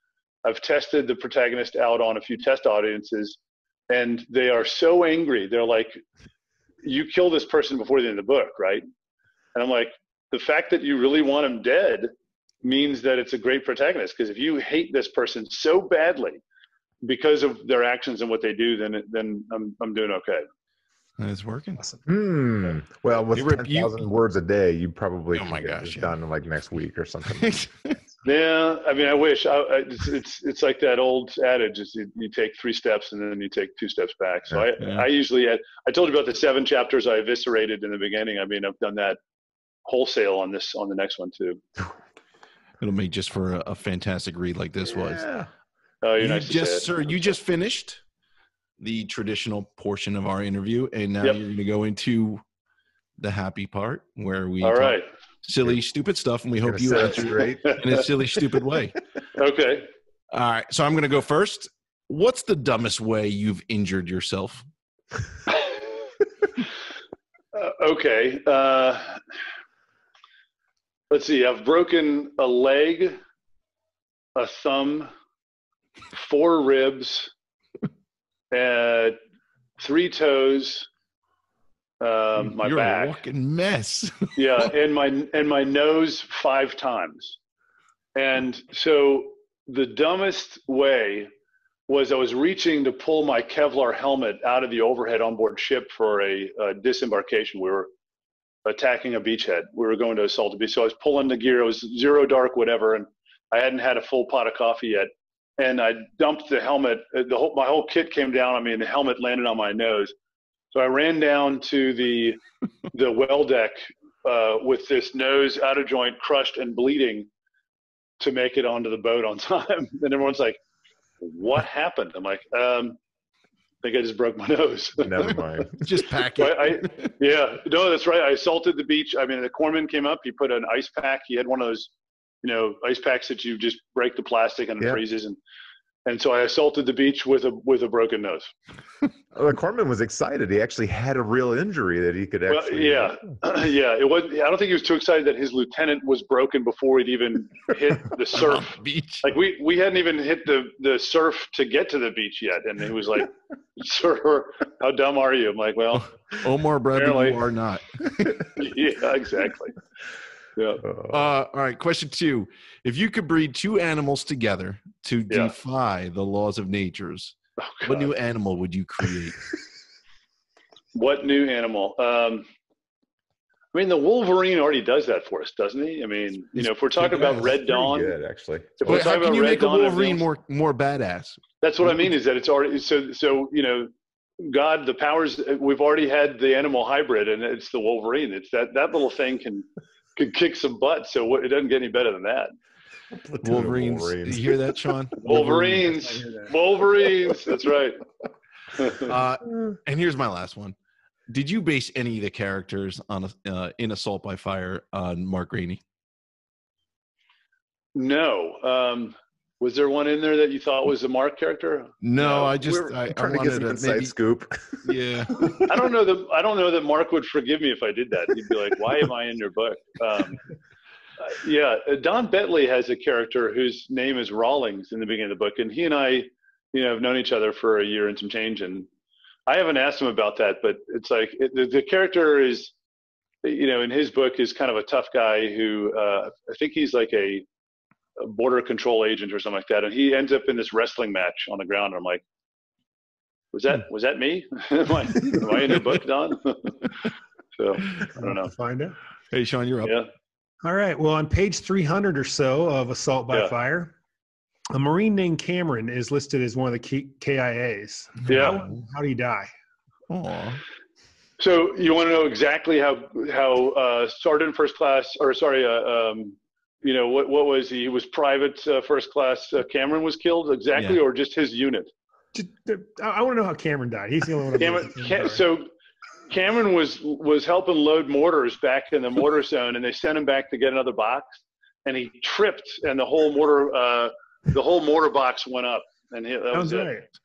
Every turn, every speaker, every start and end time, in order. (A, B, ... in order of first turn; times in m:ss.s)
0:00.4-0:03.4 A
0:03.9-0:06.0 A
0:06.8-0:08.8 A
0:09.5-0:12.1 A
0:12.6-0:16.4 A
0:17.0-0:20.4 A
0:21.2-0:21.8 B
0:22.0-0:27.5 C
0:23.3-0:24.0 B
0:25.3-0:26.1 B
0:27.3-0:28.0 B
0:28.2-0:39.2 A
0:34.8-0:35.1 B
0:39.8-0:41.6 A
0:42.8-0:45.3 B
0:44.9-0:45.5 C
0:46.0-0:47.4 A
0:46.2-0:48.0 B
0:48.8-0:52.4 B
0:53.2-0:59.0 B
0:54.6-0:55.1 A
0:56.6-0:57.8 C
0:57.6-0:58.0 A
0:59.4-0:59.9 A
1:00.3-1:04.6 B
1:05.5-1:05.8 A
1:07.5-1:09.2 A
1:11.1-1:13.2 A
1:14.3-1:15.1 A
1:16.1-1:17.3 A
1:18.5-1:19.2 A
1:19.8-1:20.9 A
1:22.0-1:23.2 A
1:22.4-1:24.7 B
1:24.4-1:27.4 A
1:28.1-1:31.3 A
1:31.9-1:37.9 A
1:38.6-1:50.1 A
1:50.7-1:52.4 A
1:52.9-1:57.3 A
1:58.2-2:00.6 A
2:01.2-2:03.0 A
2:03.8-2:05.3 A
2:05.0-2:05.8 C
2:05.8-2:07.1 B
2:06.4-2:11.9 A
2:12.4-2:15.4 A
2:16.0-2:18.5 A
2:19.3-2:23.3 C
2:22.5-2:36.1 A
2:28.3-2:29.2 B
2:36.0-2:38.5 B
2:36.9-2:37.4 A
2:38.5-2:39.8 A
2:40.6-2:40.8 A
2:41.1-2:49.5 B
2:47.6-2:48.1 A
2:50.9-2:52.5 A
2:53.7-2:58.1 A
2:57.0-2:59.1 C
2:58.8-3:00.2 A
2:58.9-3:01.4 B
3:01.6-3:12.5 A
3:13.1-3:14.7 C
3:13.4-3:15.6 B
3:15.2-3:18.0 A
3:15.2-3:16.5 D
3:18.8-3:19.1 A
3:18.9-3:20.8 B
3:21.3-3:25.8 B
3:27.9-3:32.9 A
3:32.0-3:34.1 B
3:33.0-3:35.6 C
3:34.8-3:35.6 B
3:35.6-3:40.4 A
3:41.2-3:48.9 A
3:49.5-3:52.7 A
3:53.4-3:57.4 A
3:58.2-4:02.2 A
4:03.5-4:06.8 A
4:07.6-4:08.5 A
4:08.2-4:09.0 D
4:09.3-4:10.0 B
4:09.8-4:10.1 A
4:10.6-4:13.9 D
4:14.7-4:19.5 D
4:18.3-4:18.6 A
4:20.1-4:20.6 B
4:21.4-4:31.9 A
4:30.8-4:31.0 B
4:32.3-4:35.4 D
4:34.6-4:35.7 A
4:36.3-4:46.9 A
4:46.5-4:47.0 D